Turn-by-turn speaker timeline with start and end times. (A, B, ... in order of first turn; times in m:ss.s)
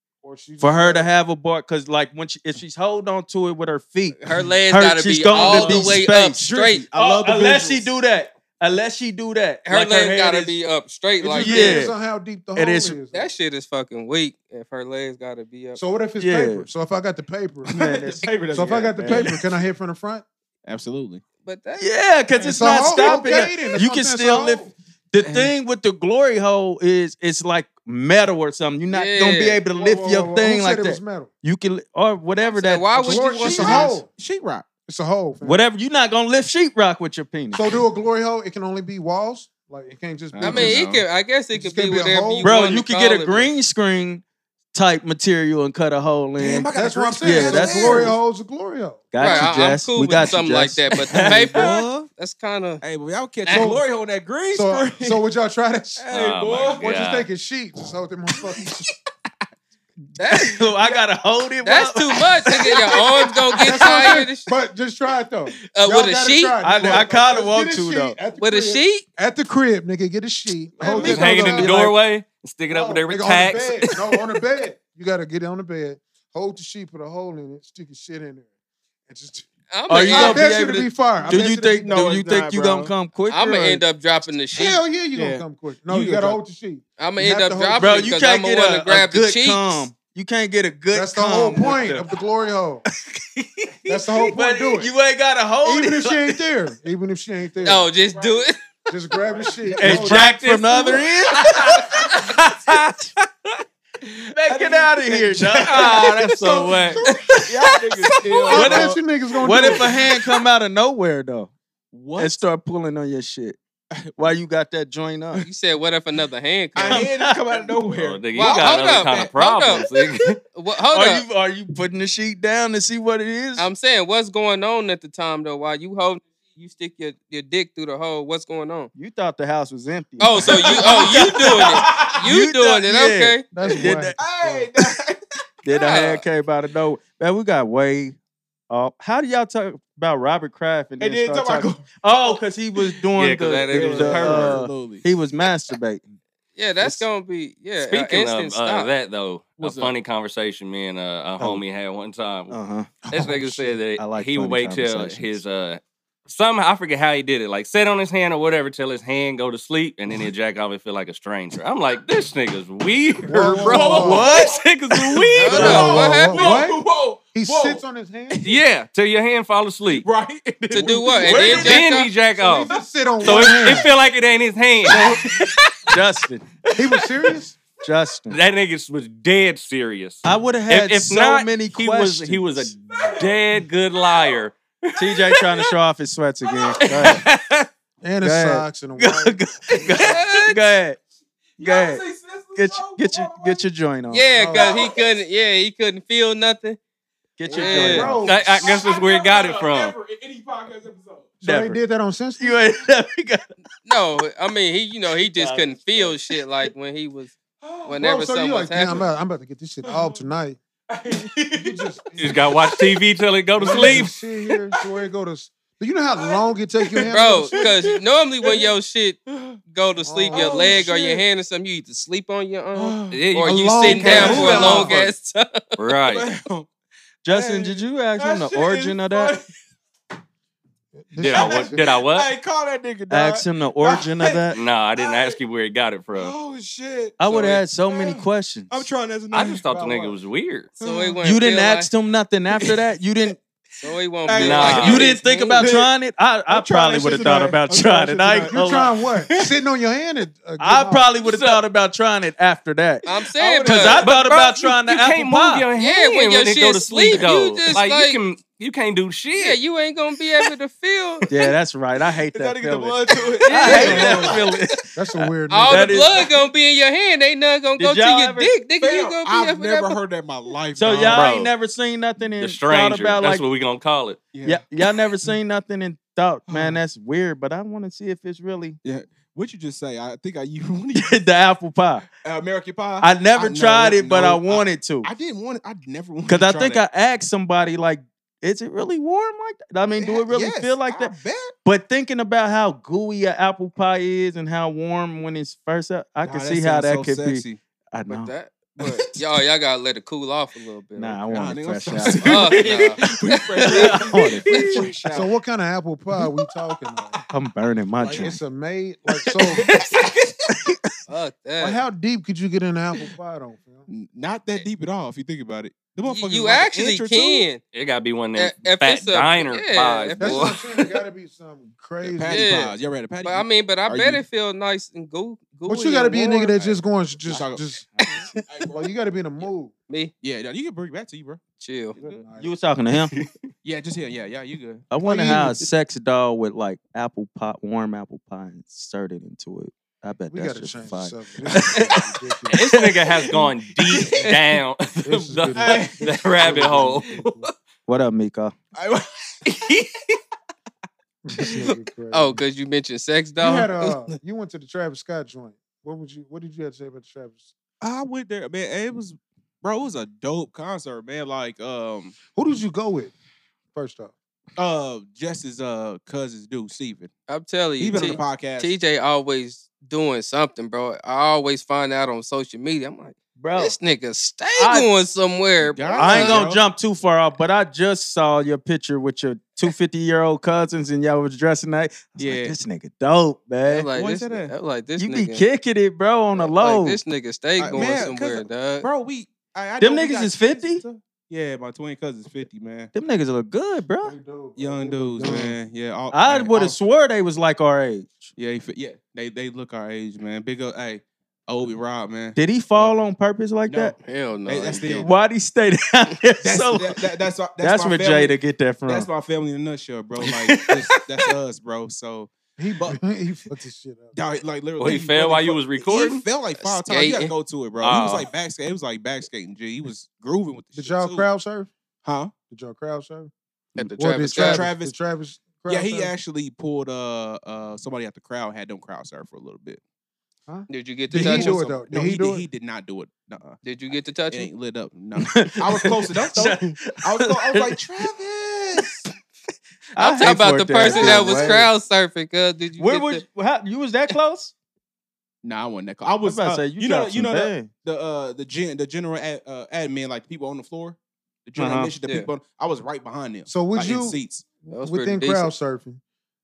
0:00.2-0:01.1 A
0:00.6-0:10.6 B
0:04.2-0:06.8 C
0:05.3-0:07.9 D
0:09.7-0:11.9 C
0:11.2-0:13.3 A
0:11.3-0:11.9 B
0:12.5-0:13.0 B
0:13.1-0:15.8 C
0:15.8-0:17.9 A
0:16.2-0:16.7 B
0:17.7-0:19.6 D
0:17.7-0:19.3 B
0:18.5-0:20.2 A
0:20.6-0:21.2 D
0:21.4-0:21.8 C
0:21.8-0:33.9 B
0:22.4-0:24.7 A
0:22.7-0:23.4 C
0:25.2-0:25.5 D
0:28.9-0:29.6 C
0:29.7-0:31.3 A
0:32.4-0:33.9 C
0:33.0-0:34.1 A
0:33.4-0:34.7 D
0:34.8-0:35.6 A
0:35.4-0:37.7 B
0:37.5-0:40.8 A
0:40.3-0:41.0 D
0:40.4-0:43.5 C
0:41.5-0:42.6 A
0:42.4-0:44.2 B
0:44.7-0:48.1 B
0:46.4-0:48.2 D
0:46.7-0:49.3 A
0:49.1-0:51.7 B
0:49.2-0:52.8 C
0:51.1-0:52.1 D
0:52.8-0:55.2 D
0:53.4-0:53.7 C
0:53.5-0:53.9 A
0:54.5-0:56.1 A
0:56.0-0:56.9 D
0:56.1-0:57.3 E
0:56.8-0:58.8 A
0:58.5-0:58.9 D
1:00.2-1:02.7 B
1:00.2-1:00.9 C
1:01.6-1:04.5 C
1:02.9-1:03.9 D
1:03.6-1:11.9 A
1:05.7-1:06.6 C
1:06.6-1:08.2 B
1:06.8-1:07.1 D
1:08.4-1:09.0 C
1:10.8-1:11.5 D
1:10.8-1:14.0 E
1:10.9-1:11.9 B
1:12.7-1:18.5 A
1:19.1-1:19.5 A
1:19.7-1:20.6 C
1:19.9-1:23.8 B
1:20.1-1:22.2 A
1:21.2-1:22.9 D
1:23.3-1:24.8 C
1:24.5-1:28.1 A
1:24.6-1:26.4 D
1:27.0-1:29.9 C
1:27.8-1:32.0 B
1:30.9-1:32.8 A
1:33.9-1:34.9 A
1:34.1-1:36.4 B
1:35.6-1:37.9 A
1:37.6-1:38.5 C
1:37.6-1:38.5 D
1:38.9-1:40.3 A
1:39.1-1:40.0 D
1:39.8-1:41.8 B
1:39.9-1:41.6 E
1:40.8-1:42.1 D
1:42.2-1:42.9 E
1:44.0-1:49.9 D
1:44.3-1:47.4 B
1:45.7-1:47.0 E
1:48.4-1:49.9 A
1:48.5-1:51.5 B
1:51.9-1:52.4 D
1:52.2-1:53.6 B
1:54.2-1:55.5 B
1:55.4-1:57.1 C
1:56.7-1:59.8 D
1:56.8-1:57.6 B
1:58.0-2:00.4 E
1:58.3-1:59.9 C
2:00.5-2:01.2 C
2:00.9-2:03.7 B
2:03.6-2:08.9 C
2:08.9-2:14.2 B
2:10.2-2:13.4 C
2:10.4-2:12.2 D
2:13.5-2:14.6 A
2:13.9-2:15.2 D
2:15.6-2:18.2 B
2:15.7-2:16.2 C
2:18.7-2:26.1 B
2:21.0-2:22.4 D
2:23.2-2:24.5 E
2:23.7-2:25.0 D
2:23.9-2:24.5 C
2:26.6-2:28.9 C
2:27.8-2:32.6 E
2:29.6-2:29.9 D
2:31.4-2:31.6 B
2:32.5-2:35.4 B
2:33.1-2:45.8 E
2:43.2-2:44.3 A
2:43.4-2:44.6 D
2:43.8-2:45.9 B
2:45.3-2:48.5 D
2:45.4-2:46.6 C
2:45.5-2:48.4 A
2:48.4-2:50.1 E
2:49.9-2:51.9 D
2:50.7-2:52.1 C
2:51.2-2:52.7 E
2:52.4-2:53.9 A
2:52.6-2:53.7 D
2:53.2-2:55.6 E
2:54.8-2:55.3 A
2:55.9-2:56.4 B
2:56.8-2:57.6 A
2:57.8-2:58.4 B
2:58.3-3:04.6 E
3:00.2-3:02.7 B
3:03.0-3:03.3 D
3:04.0-3:04.4 D
3:05.0-3:07.2 B
3:06.6-3:07.2 D
3:06.9-3:07.7 E
3:08.0-3:10.0 A
3:08.2-3:11.0 B
3:10.0-3:10.6 C
3:11.6-3:13.6 D
3:11.6-3:12.0 B
3:12.5-3:14.2 B
3:14.1-3:16.8 C
3:14.3-3:14.8 A
3:14.5-3:15.0 D
3:17.4-3:18.3 B
3:17.5-3:21.4 D
3:17.5-3:18.1 C
3:17.8-3:18.4 A
3:18.2-3:19.9 E
3:21.4-3:22.6 A
3:21.4-3:21.8 B
3:22.4-3:23.5 B
3:23.8-3:27.3 C
3:25.3-3:26.2 B
3:27.6-3:28.0 D
3:27.8-3:29.0 C
3:28.0-3:30.6 A
3:29.8-3:30.2 D
3:30.9-3:31.9 D
3:31.5-3:32.5 A
3:32.2-3:34.1 E
3:32.4-3:32.8 D
3:33.6-3:37.6 A
3:33.6-3:34.8 D
3:36.2-3:38.7 D
3:37.1-3:45.6 C
3:39.3-3:39.6 D
3:40.0-3:40.9 A
3:40.3-3:41.2 D
3:42.7-3:43.2 D
3:43.1-3:45.1 E
3:43.4-3:45.0 A
3:44.0-3:45.0 D
3:45.8-3:46.3 E
3:46.1-3:46.7 D
3:47.2-3:49.3 B
3:47.3-3:49.4 D
3:51.0-3:51.8 A
3:51.2-3:52.3 E
3:51.2-3:55.4 D
3:53.1-3:54.6 B
3:54.5-3:56.3 E
3:56.1-3:59.9 D
3:57.2-3:58.9 B
3:59.3-4:00.7 E
3:59.8-4:00.1 A
4:00.8-4:01.2 D
4:00.8-4:01.9 C
4:01.2-4:03.4 B
4:03.8-4:05.7 C
4:04.2-4:05.9 D
4:04.3-4:05.1 E
4:04.7-4:08.9 B
4:06.5-4:09.5 D
4:08.5-4:11.1 A
4:10.6-4:13.0 B
4:13.0-4:14.0 C
4:13.4-4:14.0 D
4:13.6-4:15.7 B
4:14.0-4:19.6 E
4:15.8-4:18.2 C
4:19.4-4:21.3 C
4:21.3-4:26.1 B
4:22.3-4:24.5 D
4:23.4-4:24.4 C
4:23.8-4:24.1 A
4:24.9-4:26.2 A
4:25.5-4:30.0 C
4:27.8-4:28.5 B
4:28.8-4:31.3 D
4:30.8-4:33.4 B
4:31.0-4:31.5 E
4:32.4-4:34.2 E
4:34.3-4:34.6 D
4:34.4-4:38.8 B
4:36.5-4:36.8 D
4:38.8-4:41.2 D
4:40.9-4:42.0 B
4:42.2-4:46.8 D
4:43.0-4:45.1 B
4:46.3-4:51.1 B
4:50.0-4:51.5 D
4:51.6-4:58.3 B
4:56.2-4:57.6 D
4:58.1-5:01.2 C
5:01.0-5:02.7 B
5:01.3-5:05.3 D
5:02.0-5:03.0 C
5:03.6-5:04.9 B
5:03.6-5:04.7 C
5:05.1-5:07.2 A
5:07.3-5:08.4 B
5:08.1-5:09.7 A
5:09.4-5:10.7 D
5:11.1-5:11.8 C
5:11.6-5:13.9 A
5:13.9-5:17.5 D
5:16.0-5:17.6 C
5:17.7-5:20.6 E
5:18.3-5:20.6 C
5:20.2-5:22.6 A
5:22.0-5:24.2 D
5:22.2-5:26.6 C
5:25.6-5:29.7 A
5:26.5-5:27.6 D
5:28.5-5:28.9 D
5:30.2-5:31.4 D
5:31.6-5:32.0 C
5:32.0-5:32.2 D
5:32.0-5:32.5 A
5:32.4-5:33.1 B
5:33.6-5:35.6 D
5:34.9-5:41.9 B
5:40.3-5:42.7 A
5:41.5-5:41.8 D
5:42.5-5:47.4 E
5:45.0-5:47.5 A
5:45.6-5:46.0 D
5:47.9-5:48.6 B
5:48.7-5:49.9 D
5:51.2-5:52.4 A
5:52.1-5:53.8 C
5:53.4-5:57.5 A
5:57.8-6:02.2 D
6:02.3-6:03.1 A
6:03.7-6:04.1 A
6:04.6-6:07.1 D
6:07.3-6:16.4 C
6:07.8-6:08.8 D
6:13.4-6:13.8 B
6:14.6-6:14.9 B
6:15.6-6:16.6 D
6:16.0-6:23.9 B
6:22.2-6:22.5 D
6:23.6-6:25.4 C
6:23.9-6:24.5 D
6:25.0-6:27.0 B
6:26.4-6:28.9 C
6:27.6-6:32.9 D
6:29.8-6:30.8 B
6:32.9-6:34.2 B
6:34.0-6:35.6 A
6:34.6-6:36.8 D
6:35.2-6:35.5 B
6:36.1-6:38.3 B
6:38.4-6:43.0 D
6:42.4-6:43.9 B
6:43.7-6:43.9 D
6:44.0-6:45.1 C
6:44.4-6:45.1 D
6:45.0-6:47.0 B
6:46.4-6:48.4 D
6:47.6-6:49.1 B
6:48.9-6:53.0 D
6:52.6-6:54.1 A
6:54.1-7:01.2 D
6:54.8-6:56.2 E
6:56.6-6:57.3 C
6:57.8-6:58.3 E
7:00.7-7:01.7 A
7:02.0-7:02.3 D
7:02.5-7:06.1 A
7:03.8-7:04.7 C
7:04.3-7:04.9 D
7:05.7-7:09.8 D
7:10.5-7:12.5 A
7:10.7-7:11.6 C
7:11.2-7:13.6 D
7:13.6-7:14.5 C
7:14.3-7:19.1 D
7:15.2-7:18.1 B
7:20.0-7:21.7 B
7:20.0-7:23.2 C
7:20.9-7:21.4 D
7:22.8-7:24.5 B
7:25.4-7:34.5 D
7:26.2-7:27.7 B
7:31.6-7:31.9 B
7:32.0-7:32.3 C
7:33.5-7:36.0 A
7:34.7-7:35.5 C